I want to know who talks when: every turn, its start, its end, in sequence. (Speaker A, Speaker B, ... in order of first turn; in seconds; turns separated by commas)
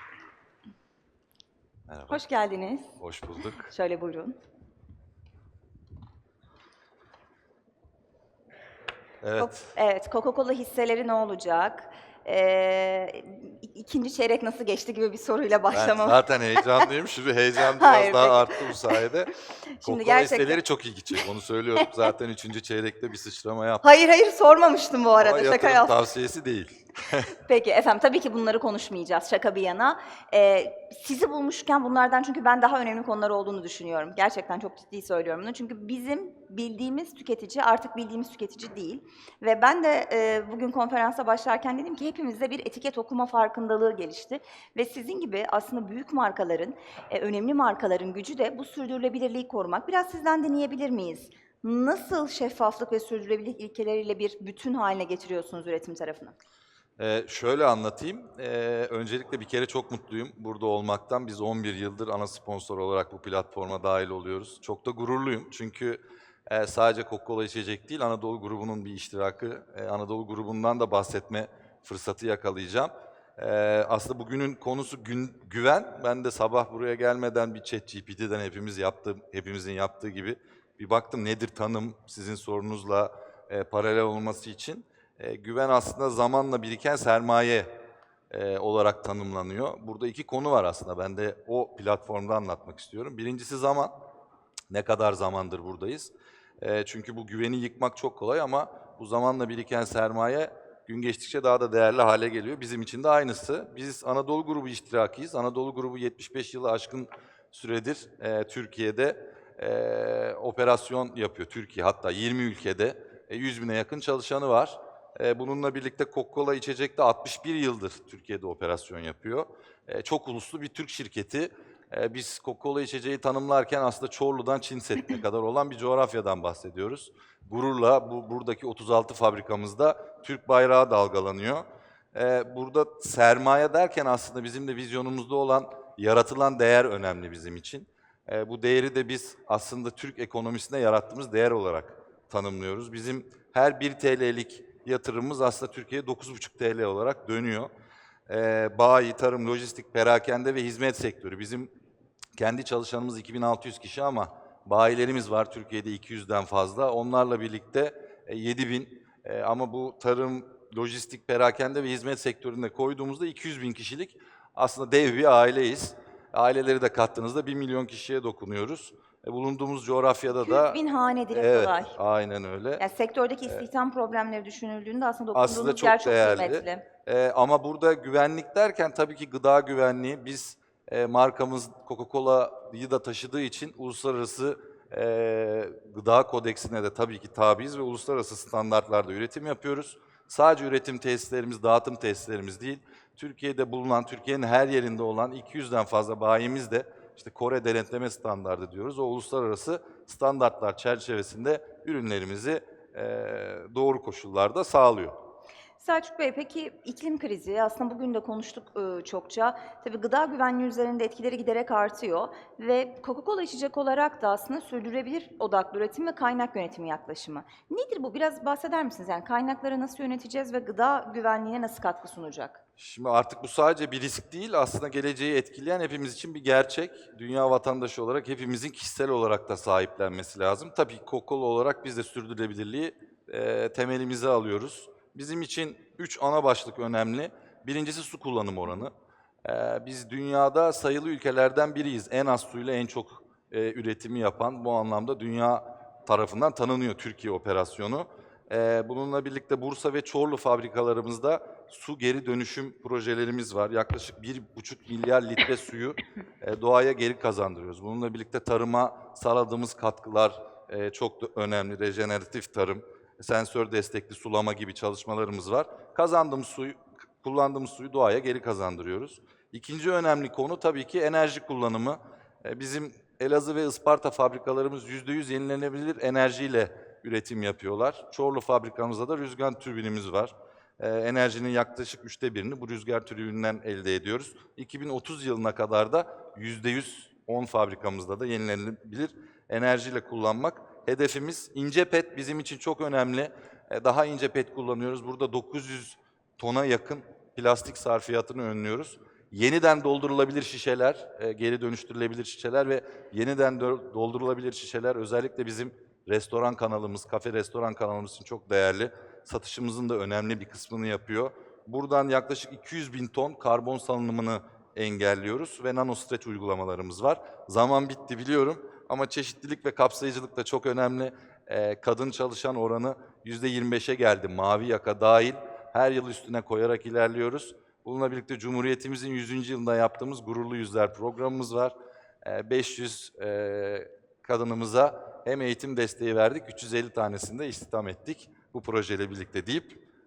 Speaker A: 1.9-2.2, Speaker B: 2.1-2.9, Speaker A: 3.0-3.7, Speaker B: 3.5-4.3, Speaker A: 9.2-9.7, Speaker B: 9.3-16.9, Speaker A: 15.7-19.3, Speaker B: 17.7-19.0, Speaker B: 19.7-20.6, Speaker A: 19.8-23.8, Speaker B: 23.8-26.0, Speaker A: 25.2-27.3, Speaker B: 27.3-56.4, Speaker A: 57.0-87.7, Speaker A: 88.3-93.9, Speaker A: 94.7-147.7, Speaker A: 148.3-151.7, Speaker A: 152.3-170.8, Speaker B: 170.3-171.9, Speaker A: 171.3-172.8, Speaker B: 172.8-176.8, Speaker A: 175.3-205.2, Speaker B: 205.8-222.6, Speaker A: 222.8-238.9, Speaker A: 239.4-339.8